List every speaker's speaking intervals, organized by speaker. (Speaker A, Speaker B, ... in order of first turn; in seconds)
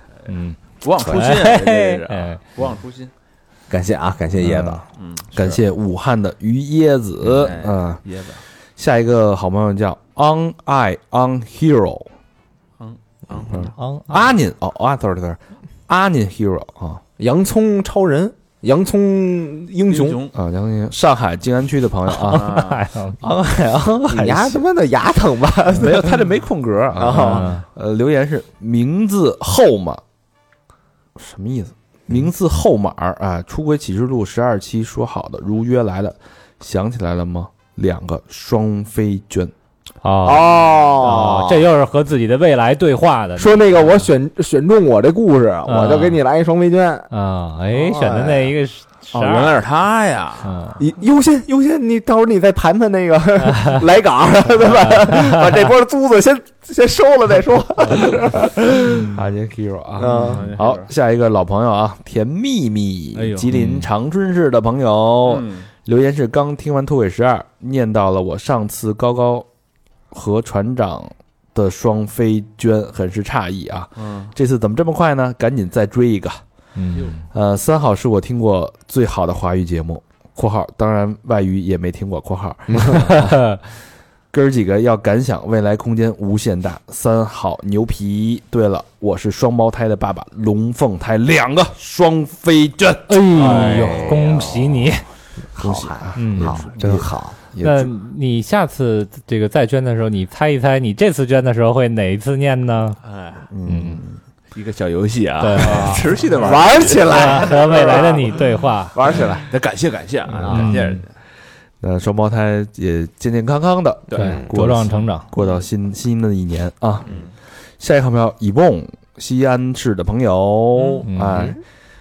Speaker A: 0.3-2.4, 13.8-14.3, 22.2-23.2, 27.1-27.6, 40.0-44.1, 45.7-46.2, 47.1-49.5, 50.4-50.8, 55.1-55.4, 63.5-63.9, 76.7-77.2, 93.1-95.0, 96.2-96.7, 97.6-103.0, 103.7-104.0, 105.4-109.0, 110.5-111.0, 114.2-115.3, 121.0-121.5
Speaker B: 0.8-3.1, 5.0-5.6, 7.2-8.4, 12.8-13.7, 19.9-20.3, 22.3-22.8, 49.1-50.5, 60.0-60.9, 63.1-63.5, 65.2-65.7, 74.0-74.3, 103.0-103.5, 104.0-108.4, 109.0-111.1, 114.1-114.4, 115.4-115.7, 120.8-121.0
Speaker C: 3.7-4.8, 17.2-20.2, 24.0-27.5, 40.2-41.7, 43.4-47.1, 47.7-48.5, 50.8-59.0, 60.0-60.5, 82.7-83.1, 93.3-94.8, 95.5-97.4, 105.6-108.4, 108.9-109.4, 110.4-110.7, 114.2-114.5
Speaker D: 4.4-8.0, 8.8-12.1, 13.5-17.0, 20.3-22.6, 23.2-24.6, 25.8-30.0, 31.1-39.5, 59.0-69.5, 70.1-76.4, 77.3-83.6, 84.3-94.2, 95.6-97.9, 103.5-104.0, 111.8-117.1, 117.8-121.6